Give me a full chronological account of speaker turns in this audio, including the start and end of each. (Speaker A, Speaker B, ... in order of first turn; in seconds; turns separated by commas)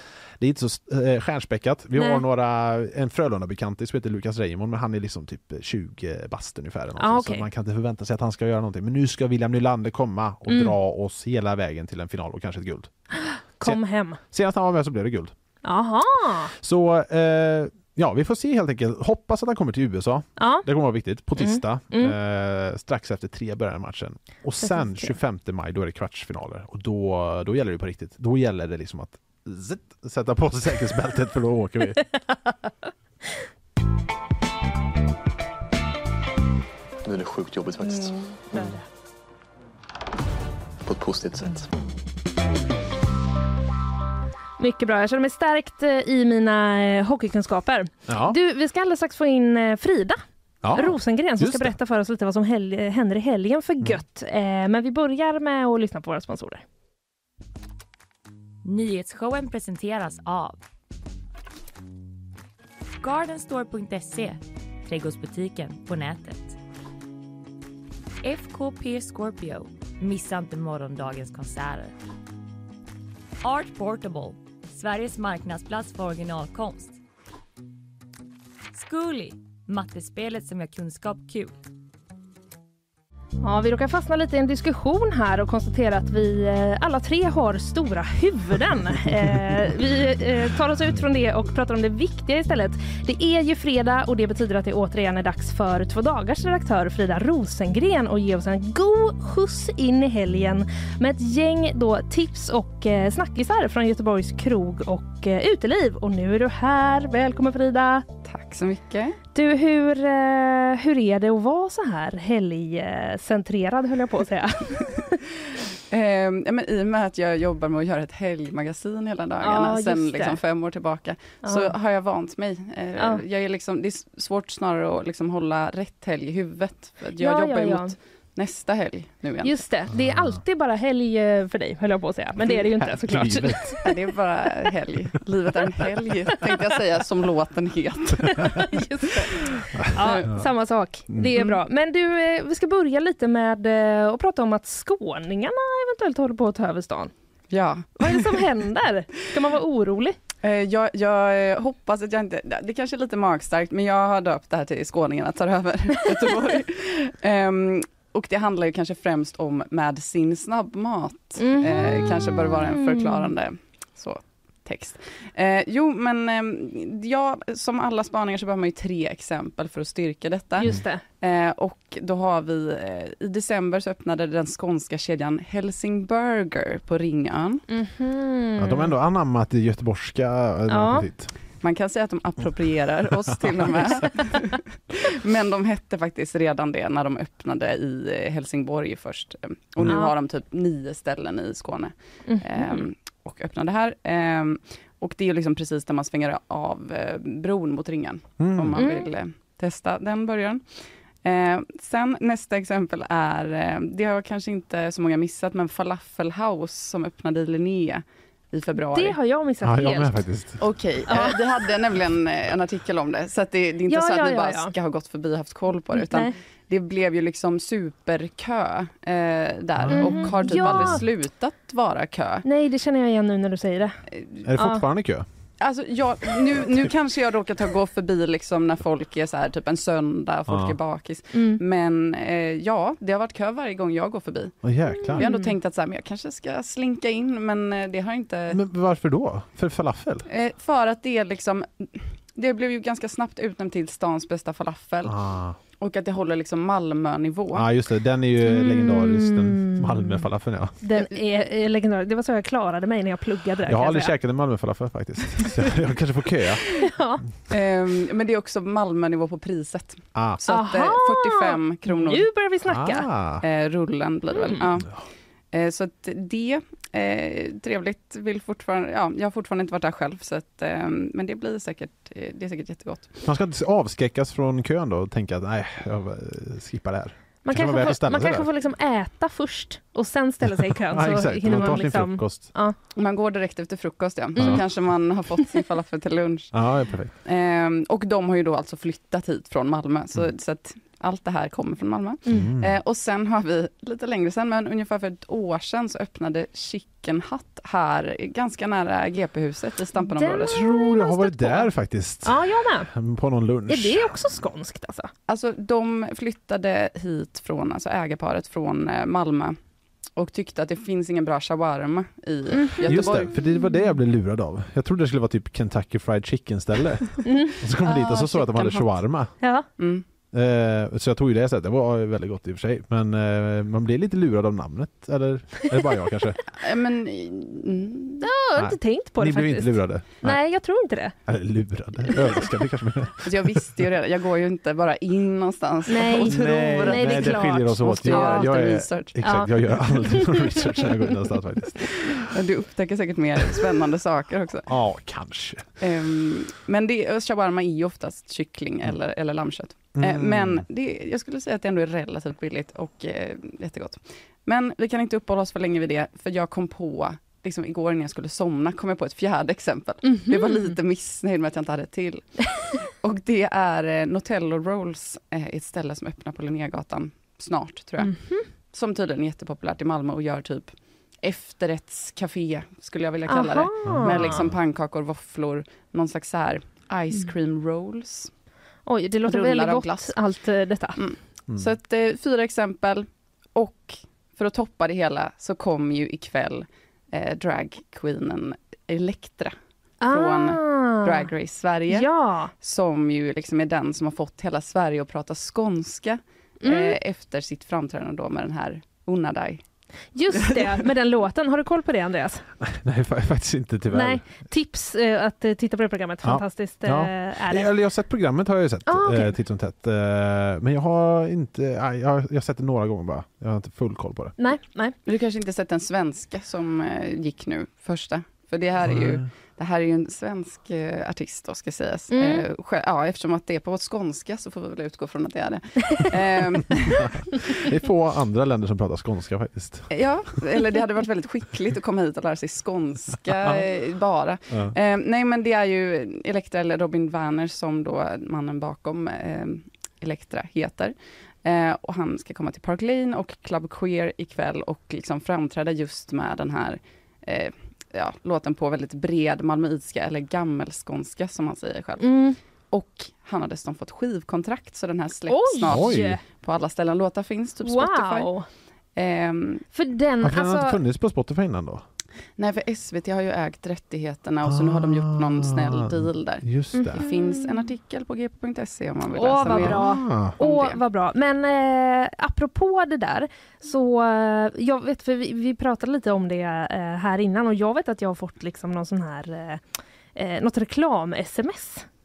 Speaker A: 0.4-12.9, Speaker B: 1.9-2.2, Speaker B: 7.0-7.5, Speaker B: 10.5-10.8, Speaker B: 13.2-14.2, Speaker A: 13.6-15.3, Speaker B: 15.6-16.5, Speaker A: 16.6-32.0, Speaker B: 20.4-20.7, Speaker B: 21.4-22.1, Speaker B: 24.6-25.1, Speaker C: 37.0-38.2, Speaker B: 38.5-38.8, Speaker A: 38.5-38.8, Speaker C: 40.8-41.7, Speaker B: 44.6-50.2, Speaker A: 48.1-48.4, Speaker A: 50.6-51.7, Speaker B: 50.7-56.6, Speaker D: 58.6-60.6, Speaker D: 63.0-66.6, Speaker D: 68.2-71.9, Speaker D: 73.4-77.0, Speaker D: 78.7-81.6, Speaker B: 83.4-108.0, Speaker E: 108.2-109.2, Speaker B: 109.3-115.2, Speaker E: 115.9-129.6, Speaker B: 119.4-120.4, Speaker B: 121.4-121.7, Speaker B: 127.2-127.9, Speaker B: 129.4-133.9, Speaker A: 129.9-130.4, Speaker A: 132.8-133.8, Speaker E: 133.8-139.3, Speaker B: 138.2-147.1, Speaker A: 139.8-140.4, Speaker E: 139.9-140.4, Speaker A: 141.1-141.4, Speaker E: 147.5-148.4, Speaker B: 148.0-150.2, Speaker E: 150.4-177.6, Speaker B: 161.4-163.3, Speaker B: 170.6-171.0, Speaker B: 177.7-178.9, Speaker A: 178.6-181.3, Speaker B: 180.7-181.1, Speaker E: 181.6-200.6, Speaker A: 183.1-184.0, Speaker B: 189.9-190.1, Speaker B: 192.3-192.8, Speaker A: 198.4-198.8, Speaker B: 198.7-199.1, Speaker E: 201.2-209.2, Speaker B: 208.9-210.2, Speaker A: 209.6-210.6, Speaker E: 210.6-222.4, Speaker B: 211.1-211.4, Speaker B: 213.9-214.7, Speaker B: 215.9-216.3, Speaker A: 219.8-221.0, Speaker B: 219.9-221.0, Speaker B: 222.4-224.0, Speaker A: 224.4-225.2, Speaker B: 224.6-224.8, Speaker E: 225.6-234.6, Speaker A: 230.5-230.8, Speaker B: 231.3-231.6, Speaker A: 234.6-235.3, Speaker B: 235.1-235.5, Speaker E: 235.1-238.6, Speaker A: 238.5-240.3, Speaker E: 240.3-245.2, Speaker A: 245.0-245.6, Speaker E: 245.8-247.7, Speaker A: 247.5-250.8, Speaker B: 248.4-250.2, Speaker B: 250.8-254.1, Speaker A: 253.7-256.6, Speaker B: 256.8-257.2, Speaker E: 257.5-262.3, Speaker A: 260.1-260.4, Speaker B: 260.5-263.1, Speaker A: 262.6-263.4, Speaker E: 263.4-264.9, Speaker B: 264.3-264.6, Speaker E: 265.5-273.2, Speaker A: 273.2-278.5, Speaker B: 277.4-282.8, Speaker A: 280.7-282.5, Speaker E: 282.9-286.5, Speaker A: 284.4-284.6, Speaker A: 286.5-287.1, Speaker E: 287.2-300.5, Speaker A: 292.3-292.8, Speaker B: 300.0-301.7, Speaker A: 300.4-304.2, Speaker B: 302.2-302.9, Speaker B: 303.7-305.1, Speaker E: 305.3-309.6, Speaker E: 310.1-313.3, Speaker B: 312.5-313.9, Speaker A: 312.9-319.3, Speaker B: 317.2-317.5, Speaker E: 317.7-318.9, Speaker B: 319.4-319.7, Speaker E: 319.8-320.0, Speaker A: 320.3-326.4, Speaker E: 326.6-328.2, Speaker B: 328.2-331.1, Speaker A: 328.6-330.4, Speaker A: 331.3-333.8, Speaker E: 333.2-339.3, Speaker B: 335.9-340.9, Speaker A: 336.2-342.3, Speaker E: 342.0-344.7, Speaker A: 344.6-345.7, Speaker E: 345.8-378.3, Speaker A: 349.9-350.6, Speaker B: 360.0-360.7, Speaker B: 368.0-368.4, Speaker B: 373.3-374.4, Speaker A: 373.8-374.6, Speaker B: 378.9-381.0, Speaker E: 379.2-380.1, Speaker E: 380.9-399.6, Speaker B: 390.0-391.2, Speaker B: 391.9-392.5, Speaker B: 396.6-396.9, Speaker B: 400.1-402.4, Speaker E: 400.3-400.8, Speaker A: 402.6-404.3, Speaker B: 403.9-407.7, Speaker A: 406.2-414.4, Speaker B: 408.9-409.3, Speaker B: 414.4-415.0, Speaker E: 415.1-427.1, Speaker A: 418.8-419.2, Speaker B: 422.1-422.4, Speaker A: 426.9-429.9, Speaker E: 429.9-452.1, Speaker B: 452.0-452.4, Speaker E: 452.7-458.3, Speaker B: 455.3-456.2, Speaker A: 455.7-456.2, Speaker B: 457.6-458.4, Speaker E: 458.9-459.6, Speaker B: 459.7-460.8, Speaker A: 460.2-461.8, Speaker E: 462.4-470.8, Speaker A: 464.4-467.0, Speaker B: 466.7-467.5, Speaker B: 469.1-479.6, Speaker A: 469.5-470.4, Speaker B: 480.1-481.9